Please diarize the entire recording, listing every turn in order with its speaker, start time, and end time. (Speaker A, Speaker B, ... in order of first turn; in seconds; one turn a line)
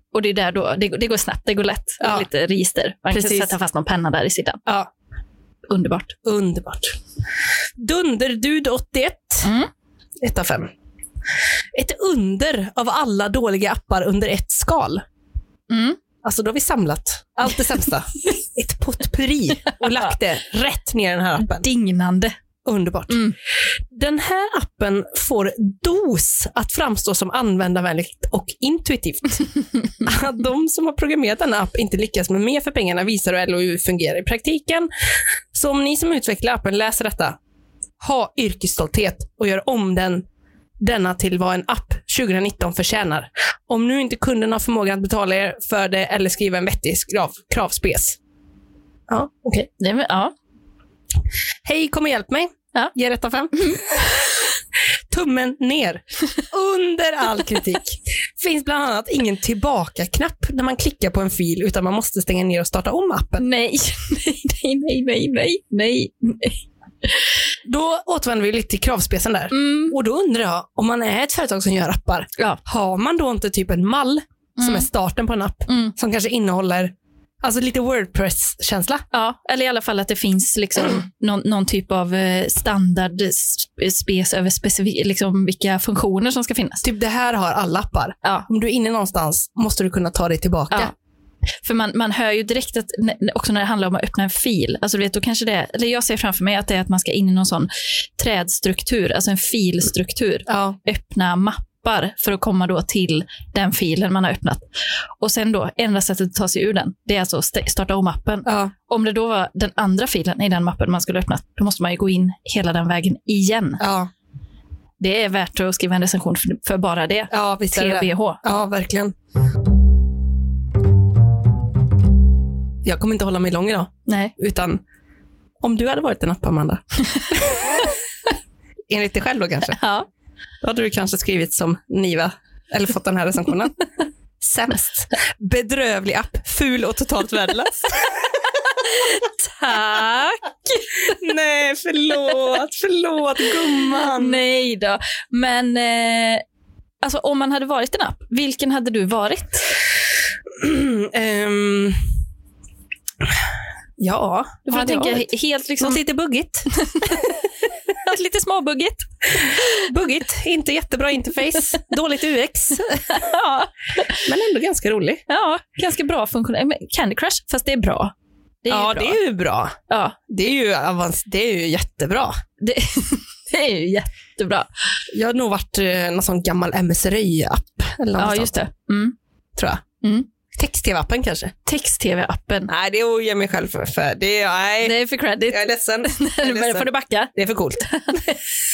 Speaker A: 0.1-4.6
Speaker B: 2.0-2.3
Speaker B: 3.1-3.5
Speaker A: 5.7-6.2
Speaker B: 6.2-6.9
Speaker B: 7.8-9.5
Speaker A: 9.4-9.7
Speaker B: 10.2-10.7
Speaker B: 11.7-15.0
Speaker A: 15.7-16.0
Speaker B: 16.2-21.6
Speaker A: 19.8-20.1
Speaker A: 21.4-22.3
Speaker B: 22.6-23.2
Speaker A: 23.1-23.3
Speaker B: 23.9-29.5
Speaker B: 30.0-34.9
Speaker B: 35.5-37.4
Speaker B: 38.0-40.2
Speaker B: 40.8-48.2
Speaker B: 49.1-49.6
Speaker A: 49.6-50.3
Speaker B: 51.6-54.1
Speaker A: 53.6-54.0
Speaker B: 55.1-63.5
Speaker A: 63.4-67.2
Speaker B: 67.7-79.0
Speaker A: 69.5-70.0
Speaker A: 74.6-74.9
Speaker A: 75.7-75.9
Speaker A: 79.1-86.8
Speaker B: 86.8-90.9
Speaker A: 91.6-104.6
Speaker B: 100.5-100.8
Speaker A: 105.2-113.8
Speaker B: 108.5-108.7
Speaker B: 113.8-114.1
Speaker A: 115.0-118.4
Speaker B: 117.3-119.1
Speaker B: 122.8-124.8
Speaker A: 124.1-124.3
Speaker B: 125.6-127.8
Speaker B: 128.9-129.8
Speaker A: 129.7-130.1
Speaker B: 130.6-133.8
Speaker B: 134.4-138.2
Speaker A: 138.8-141.2
Speaker B: 141.1-144.4
Speaker A: 143.9-146.4
Speaker A: 147.0-149.7
Speaker B: 150.6-152.0
Speaker B: 154.0-155.3
Speaker A: 154.7-156.0
Speaker B: 155.8-157.1
Speaker A: 156.7-157.3
Speaker A: 157.9-159.7
Speaker B: 159.7-163.2
Speaker A: 163.1-164.2
Speaker B: 164.2-165.2
Speaker A: 165.3-169.2
Speaker B: 168.7-172.3
Speaker A: 169.9-170.2
Speaker A: 172.6-174.7
Speaker B: 175.1-178.6
Speaker A: 178.2-179.1
Speaker B: 179.6-179.8
Speaker A: 180.0-180.3
Speaker B: 180.5-181.5
Speaker A: 181.7-182.7
Speaker B: 182.7-185.0
Speaker A: 184.8-188.4
Speaker B: 185.5-187.9